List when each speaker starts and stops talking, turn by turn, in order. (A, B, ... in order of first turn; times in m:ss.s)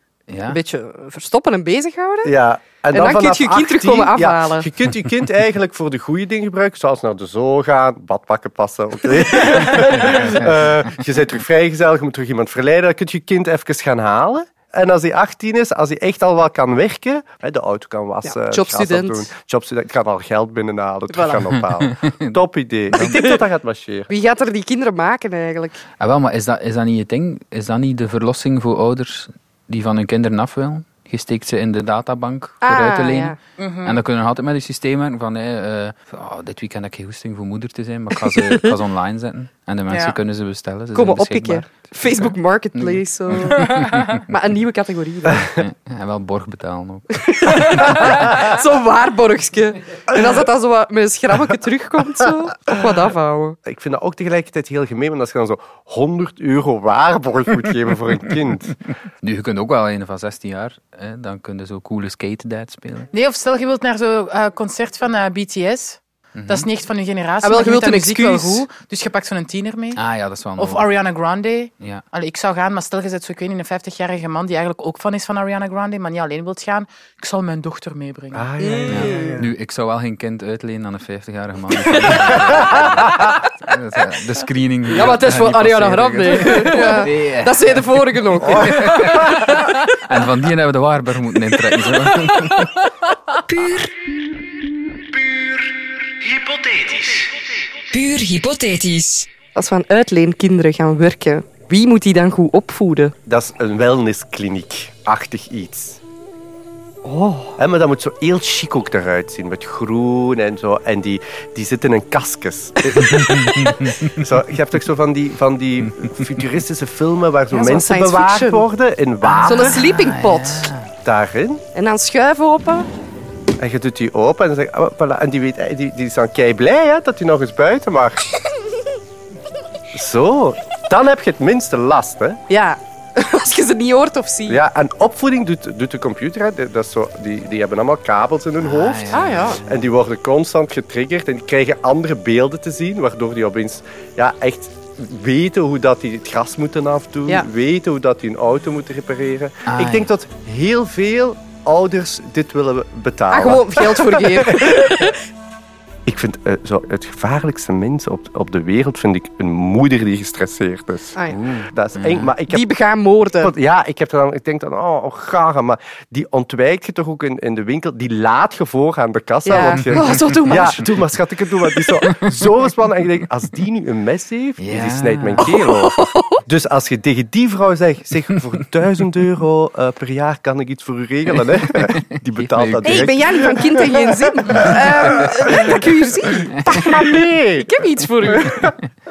0:00.3-0:00.6 A
0:00.5-0:02.4 B
0:02.2-0:24.1 C
0:02.9-0:04.7 B
0:09.4-0:10.1 B
0:10.1-0:10.5 A
0:18.2-0:19.3 B
0:21.1-0:21.4 B
0:21.5-0:22.4 A
0:22.9-0:23.3 A
0:23.0-0:23.4 B
0:24.1-0:25.8 B
0:26.0-0:44.2 A
0:32.6-0:33.4 B
0:33.6-0:34.0 D
0:38.2-0:38.7 B
0:39.9-0:40.2 D
0:40.9-0:43.7 B
0:43.6-0:44.1 D
0:44.3-0:45.5 B
0:45.5-0:48.4 A
0:47.1-0:53.6 B
0:53.7-0:58.8 C
0:59.2-1:03.1 A
1:03.1-1:10.0 D
1:06.4-1:06.7 A
1:07.4-1:08.7 B
1:10.0-1:10.9 A
1:10.6-1:18.5 D
1:18.3-1:19.5 C
1:18.6-1:19.4 B
1:18.9-1:32.7 A
1:22.5-1:23.2 C
1:24.9-1:29.2 B
1:28.4-1:29.5 C
1:33.5-1:34.4 E
1:36.5-1:37.0 C
1:37.9-1:39.3 E
1:39.6-1:43.2 B
1:43.3-1:46.0 C
1:47.0-1:47.6 B
1:47.6-1:59.8 C
1:53.0-1:54.1 A
1:57.5-1:58.6 B
1:59.3-2:00.9 A
1:59.4-2:00.7 B
2:01.0-2:01.6 C
2:01.8-2:02.9 B
2:03.6-2:08.2 C
2:09.9-2:12.4 C
2:12.5-2:14.6 B
2:14.5-2:35.1 C
2:18.6-2:19.8 A
2:19.1-2:19.6 B
2:29.7-2:30.1 A
2:33.3-2:35.2 B
2:36.1-2:42.7 C
2:41.3-2:42.3 A
2:42.5-2:43.5 B
2:43.4-3:05.9 C
2:49.4-2:50.9 B
2:54.6-2:55.5 A
2:55.4-2:56.4 B
3:01.8-3:03.2 A
3:02.8-3:08.7 B
3:04.6-3:05.3 A
3:06.5-3:08.7 C